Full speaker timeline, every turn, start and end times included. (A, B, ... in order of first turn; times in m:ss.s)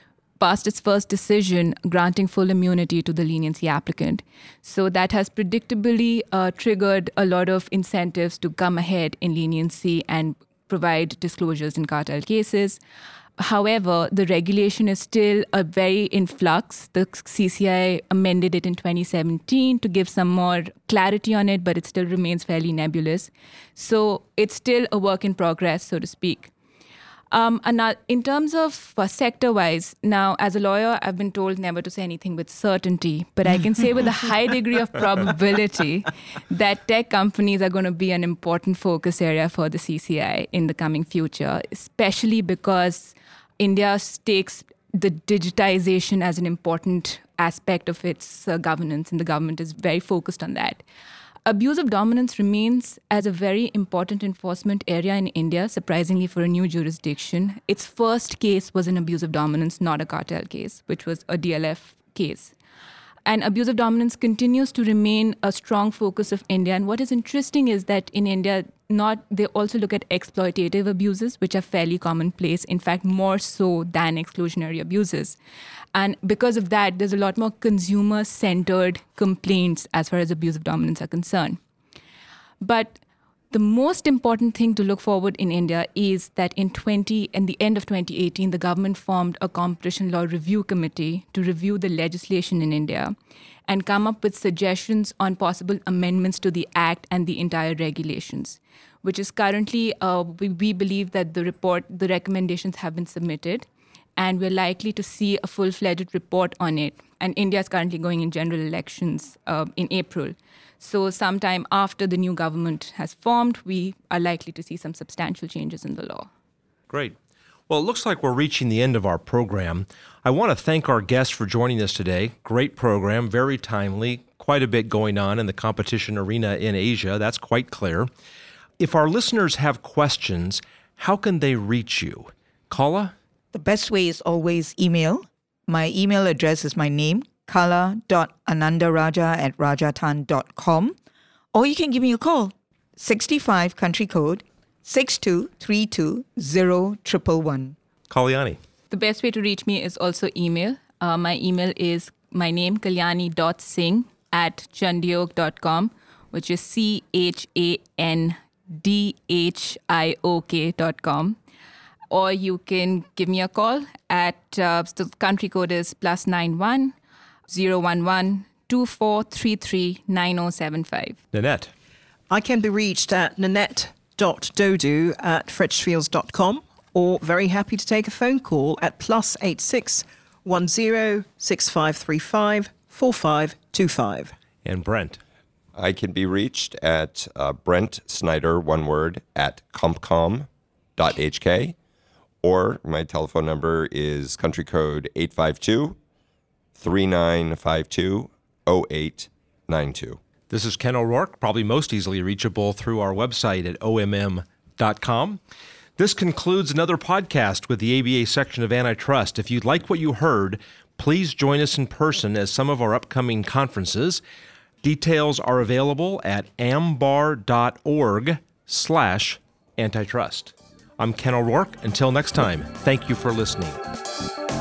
0:00.4-0:12.8 A
0:13.4-0:26.5 A
0:27.3-0:50.8 A
0:51.4-1:02.5 A
1:03.2-1:15.4 A
1:15.9-1:21.6 A
1:22.6-1:23.0 A
1:23.5-1:33.1 A
1:33.7-1:43.6 A
1:44.2-1:56.3 A
1:56.9-1:57.2 B
1:57.7-2:08.1 B
2:08.8-2:13.1 B
2:13.5-2:21.0 C
2:21.5-2:27.8 C
2:28.1-2:28.6 B
2:28.9-2:41.4 A
2:42.1-2:46.9 A
2:47.5-2:51.2 A
2:51.3-2:51.7 B
2:52.3-3:04.4 D
3:04.6-3:05.2 B
3:05.8-3:11.7 E
3:12.4-3:16.0 E
3:16.8-3:20.2 E
3:20.5-3:25.4 B
3:26.0-3:34.2 B
3:34.8-3:43.8 B